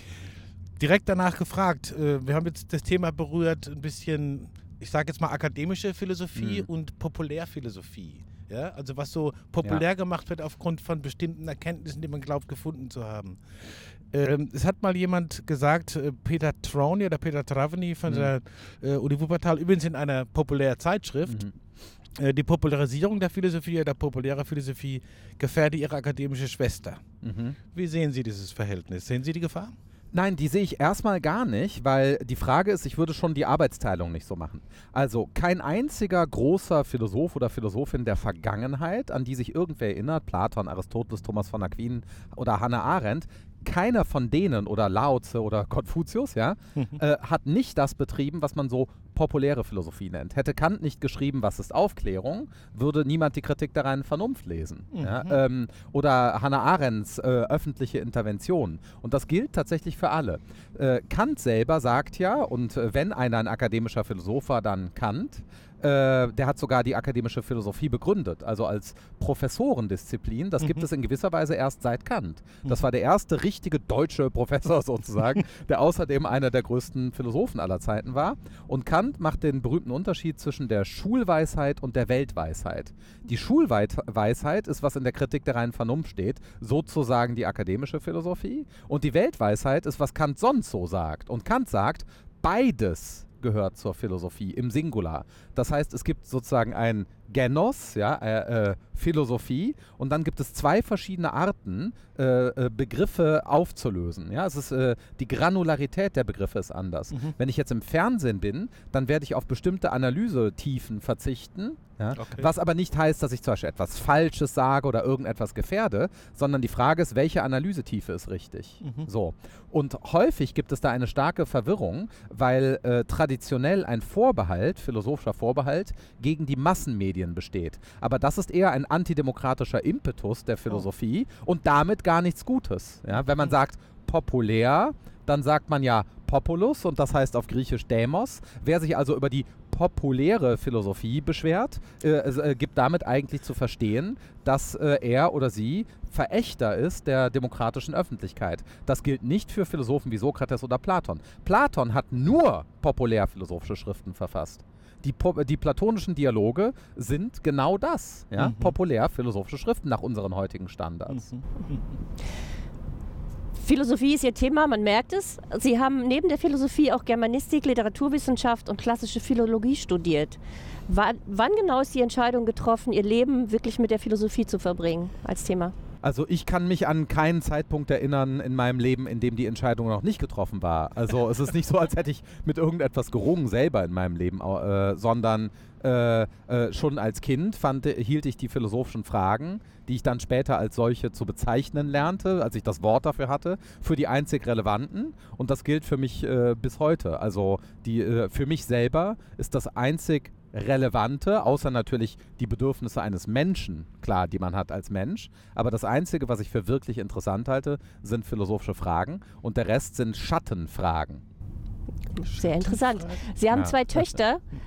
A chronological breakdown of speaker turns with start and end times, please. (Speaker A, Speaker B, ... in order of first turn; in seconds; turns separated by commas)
Speaker A: 0.8-21.4, Speaker B: 6.3-6.7, Speaker B: 18.1-18.3, Speaker B: 21.3-21.5, Speaker A: 22.2-27.0, Speaker B: 27.2-27.6, Speaker A: 27.7-29.7, Speaker B: 30.1-161.3, Speaker A: 54.9-55.4, Speaker A: 112.2-112.5, Speaker A: 118.8-119.1, Speaker A: 158.4-158.7, Speaker A: 161.1-161.8, Speaker C: 163.6-175.7, Speaker B: 176.0-211.2, Speaker C: 212.2-214.4, Speaker B: 213.5-214.0